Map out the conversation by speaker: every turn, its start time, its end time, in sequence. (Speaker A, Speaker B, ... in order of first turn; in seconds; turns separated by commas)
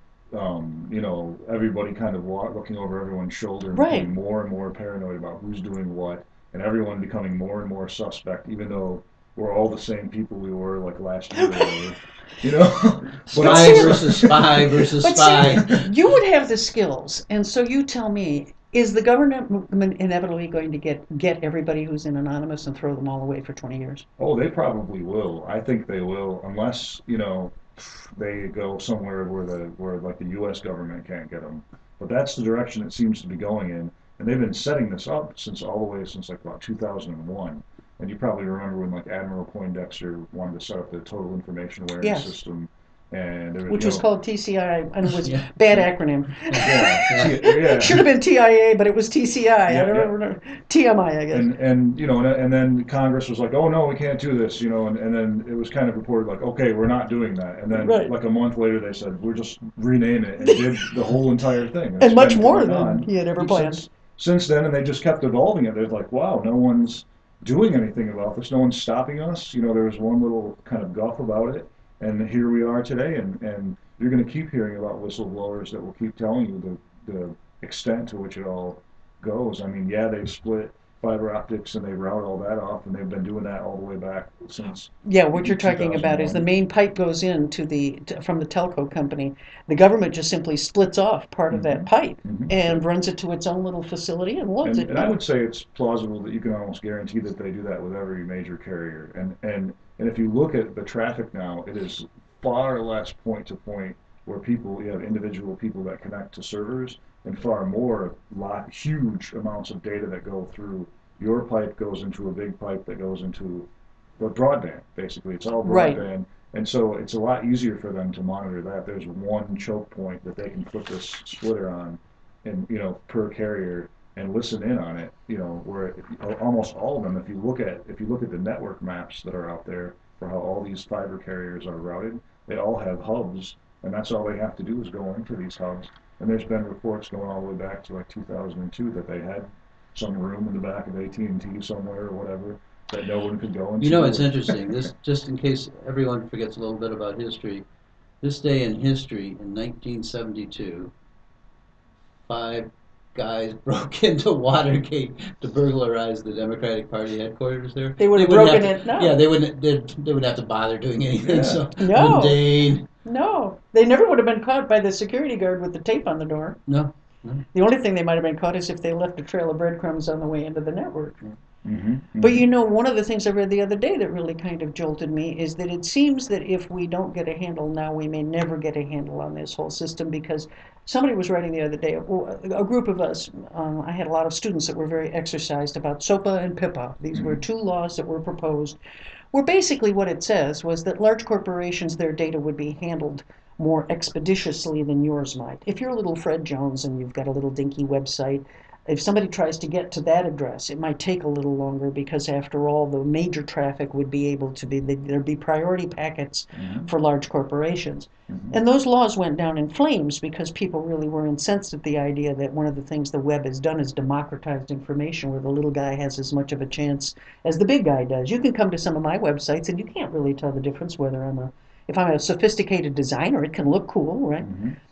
Speaker A: 0.3-14.9, Speaker B: 3.7-4.1, Speaker C: 13.3-15.9, Speaker B: 13.3-24.1, Speaker A: 24.2-44.0, Speaker B: 42.0-42.4, Speaker B: 43.7-51.5, Speaker C: 45.1-45.5, Speaker C: 46.4-47.4, Speaker A: 46.6-48.1, Speaker A: 49.6-50.1, Speaker A: 51.3-86.5, Speaker B: 57.7-58.1, Speaker B: 60.4-60.9, Speaker B: 62.0-63.8, Speaker B: 85.0-95.2, Speaker A: 91.5-92.8, Speaker A: 94.6-144.8, Speaker B: 115.7-116.0, Speaker C: 143.8-147.6, Speaker C: 148.2-150.9, Speaker C: 152.3-162.8, Speaker B: 158.0-159.2, Speaker A: 161.2-161.6, Speaker B: 161.8-162.4, Speaker B: 163.0-166.6, Speaker C: 166.7-167.4, Speaker B: 167.5-171.2, Speaker A: 171.6-172.4, Speaker B: 172.2-188.8, Speaker A: 187.1-187.4, Speaker B: 189.3-224.5, Speaker A: 206.6-206.9, Speaker A: 208.3-208.6, Speaker A: 224.4-224.8